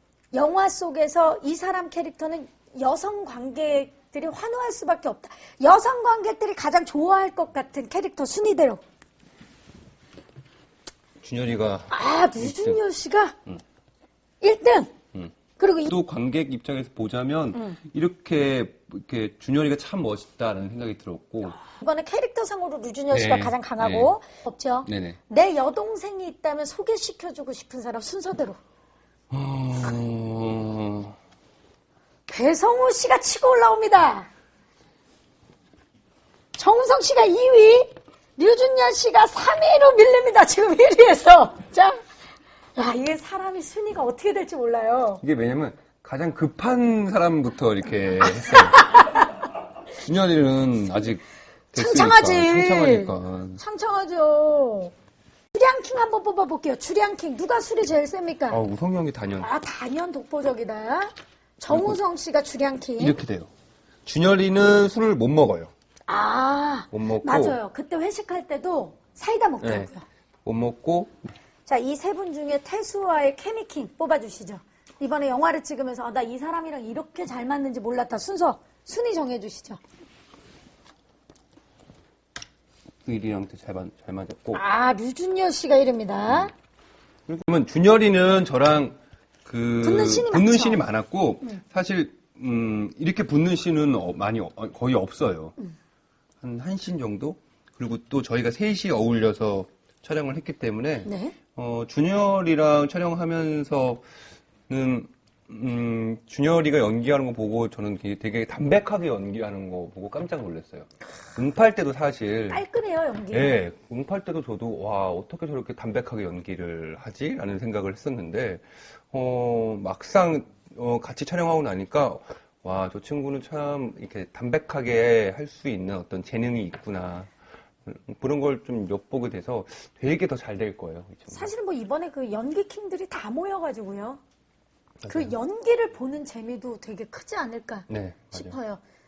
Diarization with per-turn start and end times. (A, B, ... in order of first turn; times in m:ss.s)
0:00.3-0:08.8 A
0:11.2-0:12.8 B
0:11.9-0:13.4 A
0:14.4-0:14.9 A
0:15.6-0:15.9 A
0:15.9-0:21.6 B
0:21.7-0:28.6 A
0:23.1-0:24.1 B
0:24.9-0:25.2 B
0:29.3-0:31.2 B
0:32.3-0:34.3 A
0:36.6-0:42.0 A
0:42.8-0:45.2 A
0:45.2-0:48.9 B
0:48.4-0:49.3 A
0:50.0-0:53.6 B
0:51.8-0:54.9 A
0:55.5-0:58.6 A
0:58.5-0:59.5 B
0:59.4-1:03.2 A
1:01.7-1:02.0 B
1:03.0-1:03.5 B
1:04.0-1:05.7 B
1:06.1-1:10.0 A
1:06.9-1:07.6 B
1:09.6-1:09.9 B
1:10.4-1:11.2 B
1:11.7-1:19.8 A
1:23.0-1:24.6 B
1:24.5-1:26.5 A
1:27.3-1:35.6 B
1:29.8-1:30.8 A
1:36.4-1:44.0 B
1:41.0-1:41.4 A
1:44.7-1:52.6 B
1:52.5-1:53.6 A
1:53.3-2:07.3 B
2:07.8-2:11.5 B
2:11.3-2:14.2 A
2:15.0-2:15.4 B
2:15.1-2:18.8 A
2:17.9-2:18.6 B